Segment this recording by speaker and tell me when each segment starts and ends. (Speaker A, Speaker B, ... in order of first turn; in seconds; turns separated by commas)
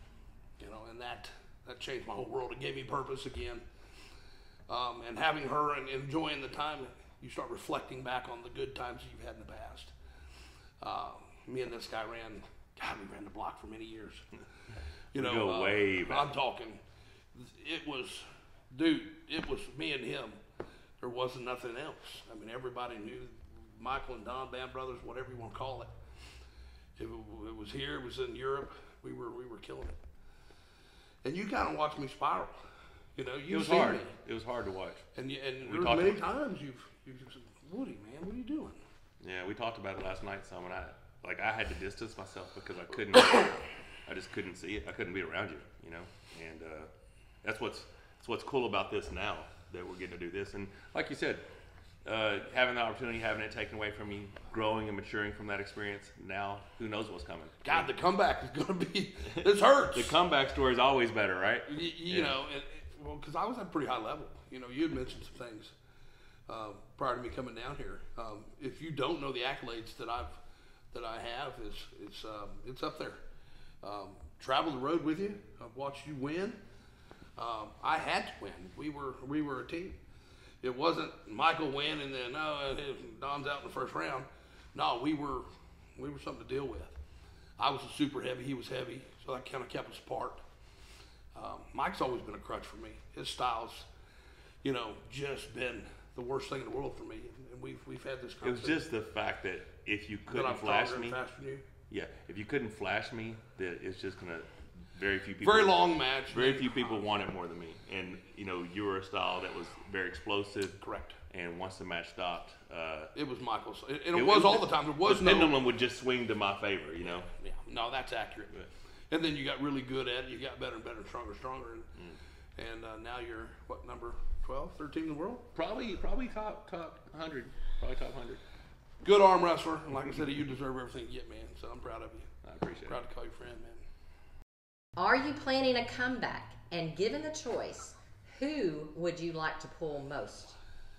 Speaker A: 0.6-3.7, Speaker A: 4.7-9.9, Speaker A: 10.8-14.3, Speaker B: 15.1-16.3, Speaker A: 15.1-16.8, Speaker A: 17.3-20.4, Speaker A: 21.0-25.9, Speaker A: 27.0-30.0, Speaker A: 31.2-32.6, Speaker A: 33.2-34.1, Speaker B: 33.5-35.0, Speaker A: 35.1-38.8, Speaker B: 35.6-36.2, Speaker B: 39.2-46.9, Speaker B: 47.4-51.4, Speaker B: 52.0-57.9, Speaker A: 57.6-60.2, Speaker B: 59.9-62.4, Speaker A: 61.7-65.7, Speaker A: 66.5-70.4, Speaker A: 70.9-73.2, Speaker A: 73.8-76.6, Speaker A: 77.4-80.0, Speaker A: 80.6-87.0, Speaker A: 87.6-90.4, Speaker A: 91.3-93.9, Speaker A: 94.6-98.8, Speaker B: 98.4-101.2, Speaker A: 100.3-101.7, Speaker B: 101.9-113.1, Speaker A: 105.4-107.0, Speaker A: 110.8-111.2, Speaker A: 113.2-115.6, Speaker B: 114.1-117.3, Speaker A: 117.4-121.9, Speaker A: 122.6-125.5, Speaker B: 125.5-128.4, Speaker A: 129.0-132.3, Speaker B: 132.4-133.0, Speaker A: 132.8-133.8, Speaker C: 135.0-140.6